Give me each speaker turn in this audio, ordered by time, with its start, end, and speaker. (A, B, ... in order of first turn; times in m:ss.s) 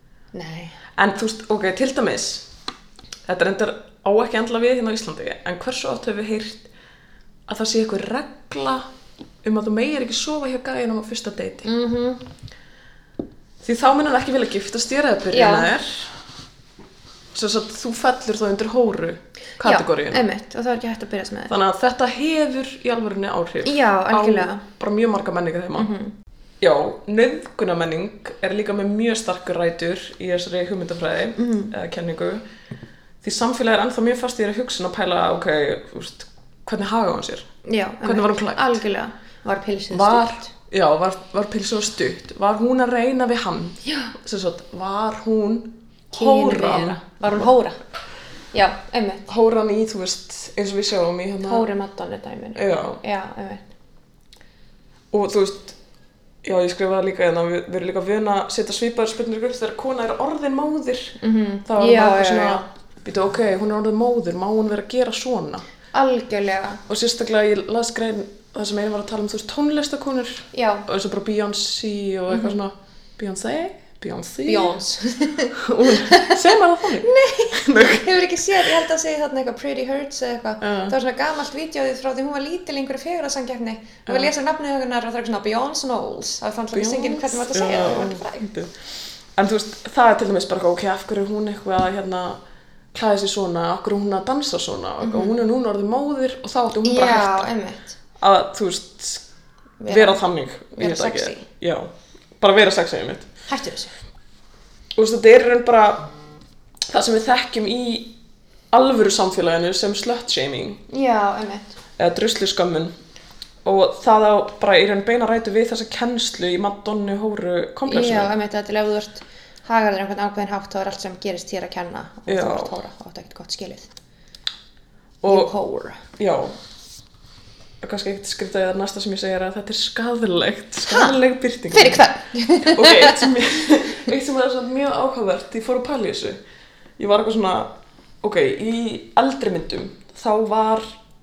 0:00.3-0:00.8 A
0:01.0-0:02.5 B
0:03.3-0:06.7 B
0:07.5-0:08.9 B
0:09.4-0:11.7 B
0:11.6-0:12.3 A
0:13.6-0:16.2 B
0:15.3-0:15.7 A
0:17.3-0:20.2 B
0:19.6-0:21.5 A
0:21.5-0:25.9 B
0:23.6-0:24.6 A
0:25.8-0:26.1 A
0:26.6-0:32.4 B
0:31.4-0:31.7 A
0:33.2-0:37.5 B
0:37.6-0:40.5 A
0:38.0-0:38.8 B
0:39.9-0:47.5 B
0:43.8-0:44.1 A
0:46.1-0:47.8 A
0:48.5-0:49.3 A
0:49.3-0:51.7 B
0:51.4-0:53.6 A
0:52.6-0:53.0 B
0:55.1-0:55.8 B
0:56.4-1:05.6 B
1:01.2-1:02.6 A
1:05.9-1:06.8 A
1:06.9-1:14.7 B
1:10.5-1:10.9 A
1:14.4-1:16.4 A
1:15.6-1:18.1 B
1:17.0-1:28.5 A
1:20.6-1:21.0 B
1:26.7-1:28.8 B
1:29.4-1:32.4 B
1:32.9-1:37.5 B
1:35.0-1:35.4 A
1:36.8-1:38.0 A
1:38.2-1:39.2 B
1:39.8-1:41.4 A
1:39.9-1:43.3 B
1:43.5-1:43.9 A
1:45.0-1:46.1 B
1:46.9-1:48.2 B
1:48.7-1:50.8 B
1:50.9-1:51.8 A
1:52.0-1:52.9 B
1:53.6-1:58.3 B
1:57.9-2:03.9 A
2:02.3-2:02.7 B
2:05.2-2:05.5 B
2:05.3-2:06.0 A
2:06.2-2:06.6 B
2:07.8-2:12.0 B
2:10.9-2:11.2 A
2:11.7-2:13.4 A
2:12.6-2:16.4 B
2:17.0-2:20.9 B